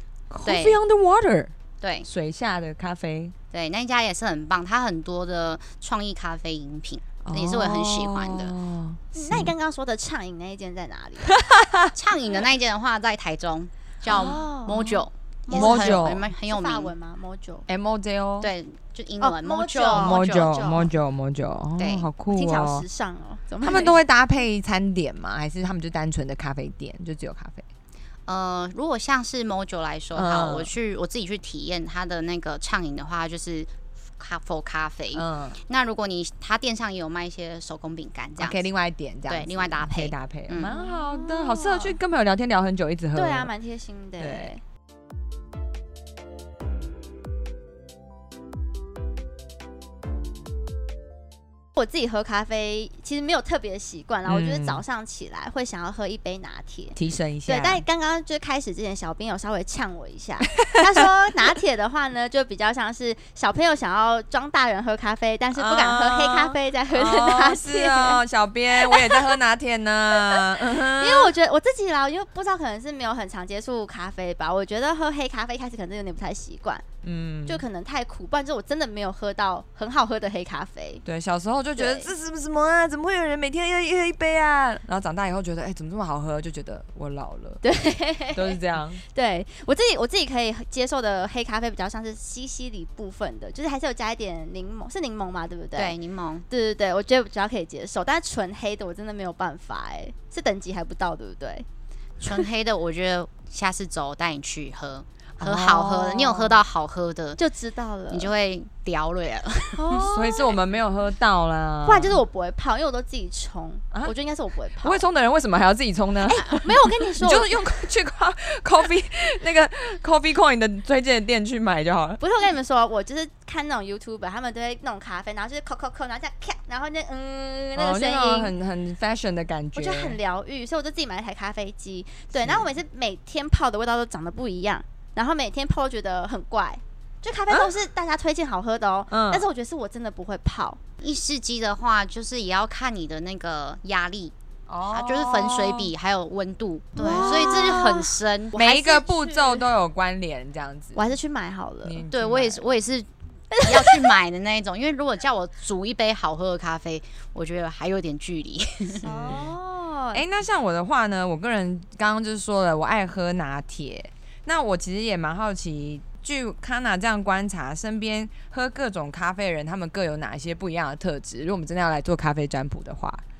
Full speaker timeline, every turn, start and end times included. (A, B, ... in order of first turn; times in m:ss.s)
0:00.3-0:03.3 A
0:00.4-0:00.8 B
0:01.8-0:02.1 B
0:03.5-0:08.5 B
0:07.2-0:09.5 A
0:09.1-0:11.4 C
0:11.2-0:11.9 A
0:11.9-0:16.9 B
0:14.1-0:14.9 C
0:14.1-0:15.0 A
0:15.4-0:17.6 C
0:15.5-0:16.2 A
0:17.7-0:18.5 A
0:18.4-0:20.9 B
0:19.2-0:20.9 C
0:19.9-0:22.8 A
0:21.8-0:22.0 B
0:22.3-0:24.0 C
0:23.6-0:27.6 A
0:28.3-0:38.6 B
0:30.1-0:30.7 A
0:35.1-0:35.6 A
0:38.4-0:43.5 A
0:39.3-0:40.7 B
0:40.6-0:42.0 C
0:43.1-0:44.6 C
0:44.2-0:44.5 A
0:51.8-1:08.2 C
0:54.2-0:54.8 A
0:56.9-0:57.8 A
1:00.6-1:01.0 A
1:05.5-1:11.3 A
1:08.7-1:09.4 C
1:10.2-1:16.8 C
1:17.0-1:17.6 A
1:17.5-1:21.0 C
1:21.0-1:27.6 A
1:21.8-1:22.1 C
1:27.6-1:36.0 C
1:28.3-1:29.0 A
1:35.7-1:36.4 B
1:36.5-1:41.6 C
1:42.2-1:47.4 B
1:45.4-1:46.6 A
1:47.4-1:48.3 C
1:48.1-1:50.0 B
1:49.8-1:50.6 C
1:49.9-1:52.2 A
1:51.8-1:55.0 C
1:54.8-2:02.2 A
1:56.5-1:57.8 C
2:02.2-2:08.5 C
2:07.8-2:10.2 A
2:09.7-2:20.8 C
2:12.3-2:12.7 A
2:19.1-2:19.4 A
2:21.0-2:24.3 B
2:24.7-2:25.9 A
2:24.9-2:28.6 B
2:27.0-2:29.7 C
2:27.0-2:28.0 A
2:28.5-2:31.1 A
2:30.9-2:32.0 C
2:31.8-2:32.6 A
2:32.1-2:33.1 B
2:33.5-2:34.2 C
2:33.6-2:39.0 B
2:39.0-2:39.6 A
2:39.0-2:40.2 C
2:40.1-2:53.2 A